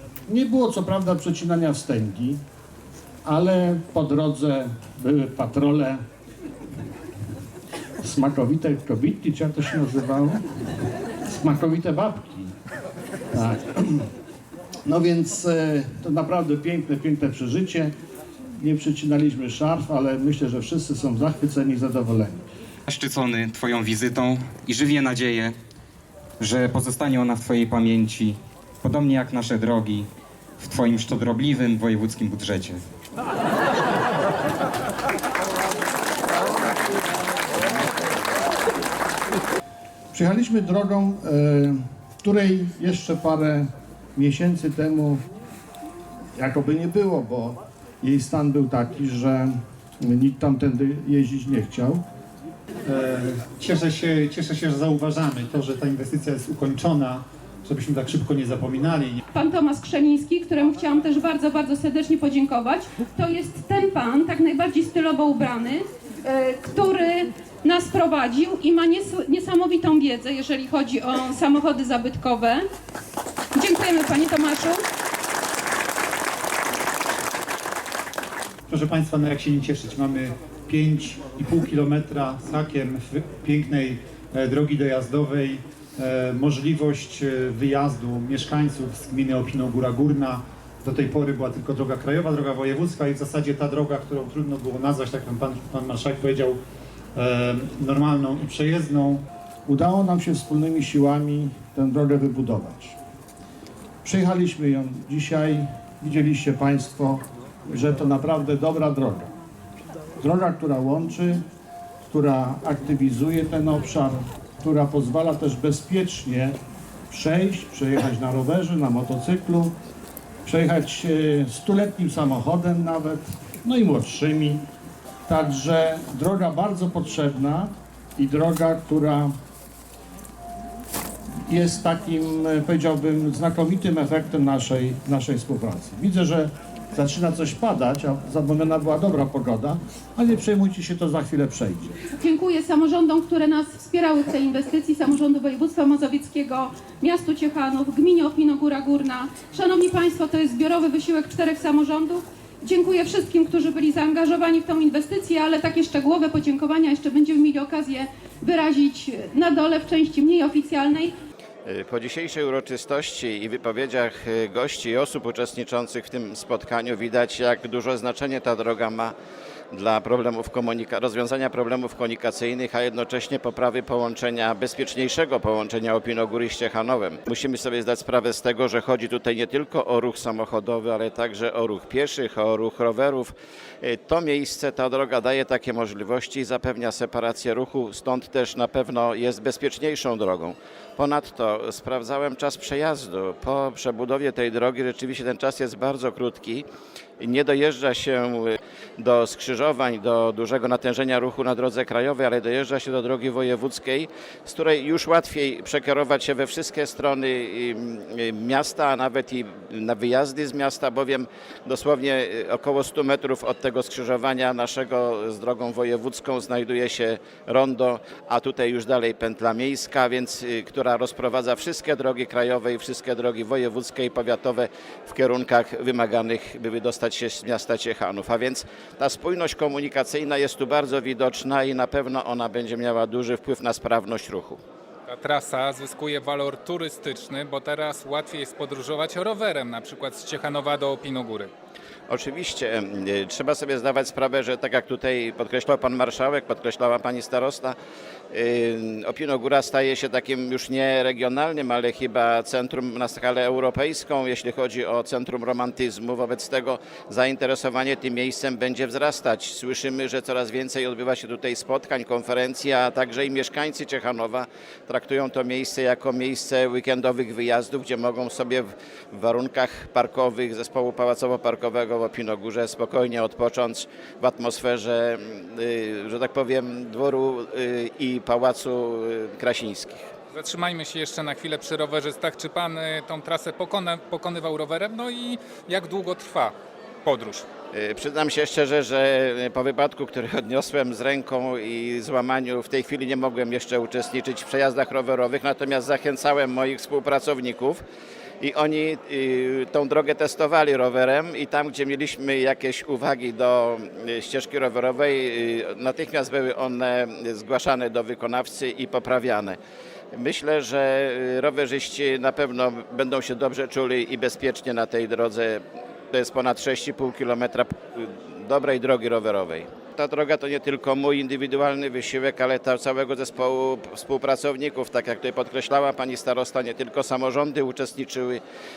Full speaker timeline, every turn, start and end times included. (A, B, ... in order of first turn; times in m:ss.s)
0:00.3-0:02.4 A
0:03.2-0:06.0 A
0:08.0-0:10.4 A
0:11.3-0:12.5 A
0:13.3-0:14.1 A
0:14.8-0:17.9 A
0:18.6-0:22.4 A
0:22.9-0:25.6 B
0:26.4-0:30.1 B
0:30.6-0:32.8 B
0:40.1-0:45.2 A
0:46.4-0:52.0 A
0:52.8-0:59.2 C
0:59.3-1:12.6 D
1:13.5-1:14.8 D
1:18.7-1:36.6 C
1:37.2-1:39.2 C
1:39.6-1:43.0 A
1:44.0-1:49.3 A
1:50.2-1:51.4 A
1:52.0-1:56.6 A
1:57.1-1:59.7 A
2:00.4-2:04.6 A
2:05.3-2:09.3 A
2:11.5-2:22.0 A
2:22.2-2:41.1 D
2:41.6-2:49.1 E
2:49.7-3:16.6 E
3:17.2-3:54.6 E
3:55.1-4:01.5 F
4:02.1-4:07.8 E
4:08.3-4:40.1 E
4:40.3-4:46.5 F
4:47.0-4:47.4 F
4:47.7-4:57.8 E
4:58.4-5:09.6 E
5:10.1-5:28.4 E